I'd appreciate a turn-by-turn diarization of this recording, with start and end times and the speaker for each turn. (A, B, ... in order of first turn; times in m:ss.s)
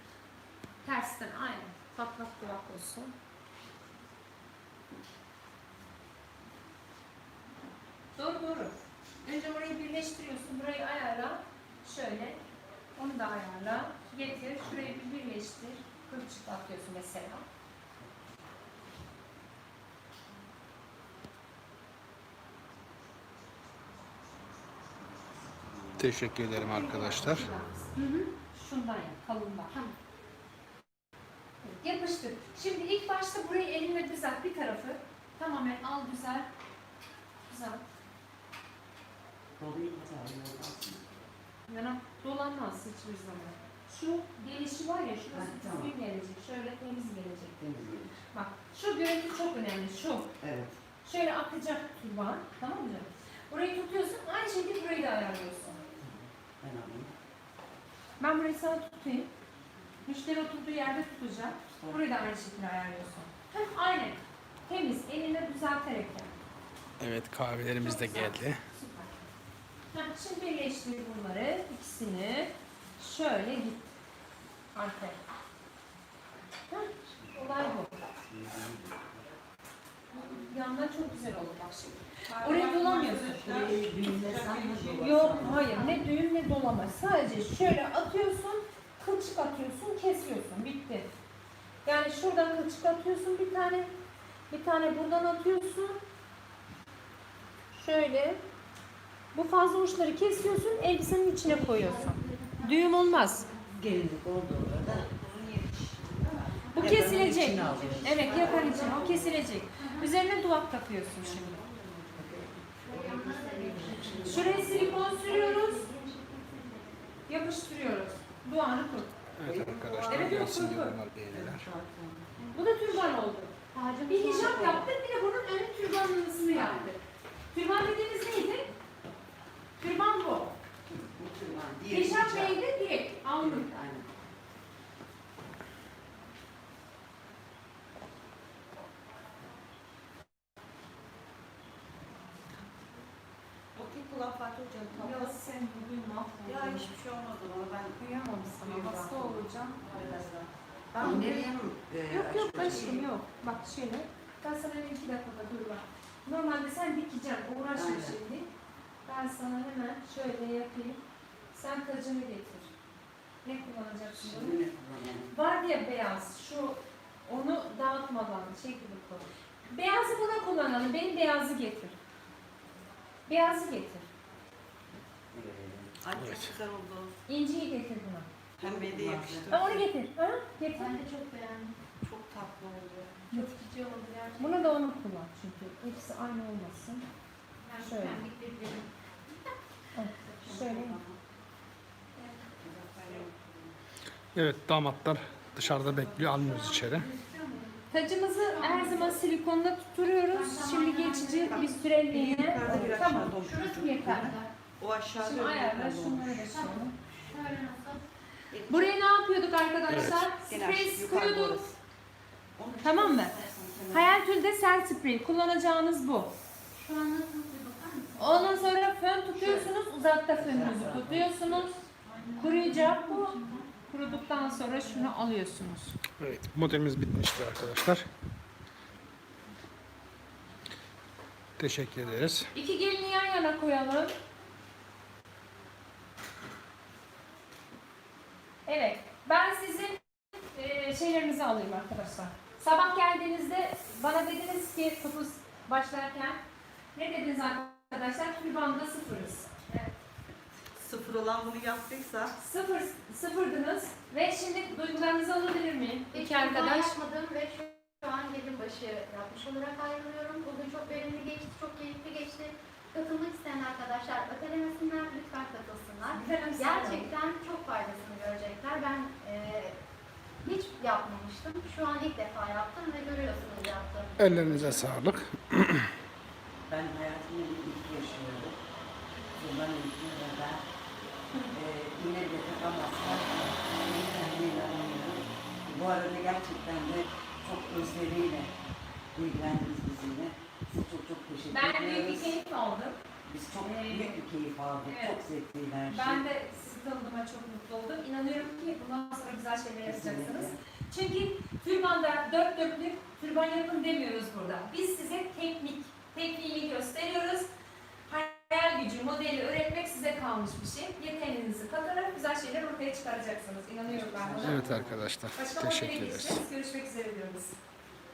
0:00.8-0:03.1 A
0:08.1-0:12.4 A
0:13.0-0:17.4 A
0:25.7-0:26.0 B
0:26.0-0:27.5 C
0:26.5-0:29.8 A
0:27.9-0:28.3 D
0:31.6-0:36.5 A
0:37.5-0:37.8 A
0:39.6-0:41.1 B
0:41.7-0:47.6 A
0:45.3-0:46.0 B
0:47.6-0:48.2 B
0:48.3-0:50.3 A
0:50.4-0:50.8 B
0:51.0-0:55.8 A
0:56.0-0:57.1 B
0:58.2-0:59.3 A
1:00.0-1:06.4 A
1:01.7-1:02.0 B
1:07.0-1:08.6 C
1:07.8-1:09.2 A
1:09.9-1:13.9 A
1:14.7-1:15.2 A
1:16.7-1:18.0 A
1:18.2-1:19.1 B
1:20.1-1:23.6 A
1:22.3-1:25.5 E
1:23.1-1:25.7 B
1:25.0-1:31.1 A
1:25.6-1:26.0 D
1:31.8-1:33.9 A
1:34.5-1:36.0 A
1:37.7-1:38.4 A
1:39.3-1:43.5 A
1:41.4-1:43.6 D
1:43.7-1:45.1 B
1:44.9-1:46.6 E
1:46.6-1:49.2 D
1:46.7-1:51.6 A
1:46.8-1:49.1 B
1:47.3-1:48.8 E
1:49.8-1:50.1 D
1:51.2-1:52.2 E
1:52.1-1:55.0 B
1:52.8-1:57.2 D
1:54.2-1:55.9 A
1:57.3-1:59.2 A
1:59.4-2:01.6 C
1:59.4-2:00.6 B
2:00.0-2:01.0 A
2:01.3-2:02.3 B
2:02.5-2:03.5 A
2:03.7-2:04.9 D
2:04.1-2:07.0 A
2:06.5-2:06.9 B
2:07.5-2:08.7 A
2:09.8-2:10.5 A
2:11.0-2:12.6 B
2:11.9-2:13.7 A
2:13.4-2:14.1 B
2:23.8-2:25.5 E
2:24.9-2:26.9 A
2:26.4-2:28.0 E
2:28.0-2:29.9 A
2:28.5-2:31.5 E
2:30.9-2:33.0 B
2:31.0-2:31.4 A
2:32.1-2:38.5 A
2:32.5-2:33.0 E
2:37.7-2:38.2 B
2:39.0-2:42.7 A
2:43.4-2:44.6 A
2:44.2-2:45.4 B
2:45.3-2:52.0 A
2:53.3-2:54.1 A
2:55.3-2:56.0 B
2:56.0-2:57.1 E
2:56.1-2:56.5 C
2:57.3-2:58.3 A
2:58.6-2:59.9 E
2:58.6-2:59.6 B
2:59.5-3:00.9 A
3:00.7-3:01.8 D
3:02.0-3:03.3 E
3:03.3-3:03.6 A
3:03.3-3:04.8 D
3:04.4-3:07.0 A
3:07.6-3:09.6 D
3:07.8-3:08.2 A
3:09.9-3:11.0 A
3:10.2-3:10.9 D
3:12.2-3:12.5 D
3:13.0-3:13.3 E
3:14.4-3:17.1 C
3:16.4-3:19.2 D
3:17.9-3:24.3 A
3:20.3-3:21.9 D
3:21.4-3:26.5 E
3:22.6-3:24.5 D
3:25.2-3:27.0 A
3:26.5-3:28.0 D
3:28.5-3:28.9 E
3:28.7-3:31.7 A
3:29.9-3:30.2 C
3:30.4-3:31.7 E
3:32.7-3:33.2 E
3:32.8-3:33.4 A
3:32.9-3:33.4 B
3:33.9-3:36.3 A
3:36.7-3:38.7 D
3:38.2-3:41.8 A
3:39.4-3:39.6 D
3:40.3-3:41.7 B
3:42.0-3:45.1 D
3:42.4-3:46.0 A
3:46.2-3:48.0 C
3:51.6-3:52.5 C
3:52.5-3:54.1 A
3:58.6-4:00.0 A
4:00.5-4:06.4 A
4:06.9-4:09.5 A
4:10.8-4:12.3 E
4:12.4-4:17.0 A
4:16.1-4:29.8 D
4:26.1-4:27.1 A
4:30.4-4:34.9 D
4:34.2-4:35.9 C
4:36.7-4:38.6 B
4:39.3-4:40.6 B
4:41.5-4:48.5 B
4:49.1-4:52.4 B
4:51.5-4:53.0 A
4:53.2-4:56.3 B
4:53.6-4:54.2 A
4:54.8-4:55.2 A
4:55.9-5:07.5 A
4:59.8-5:00.6 B
5:08.0-5:14.6 A
5:13.9-5:15.1 B
5:14.4-5:16.4 C
5:15.4-5:17.6 A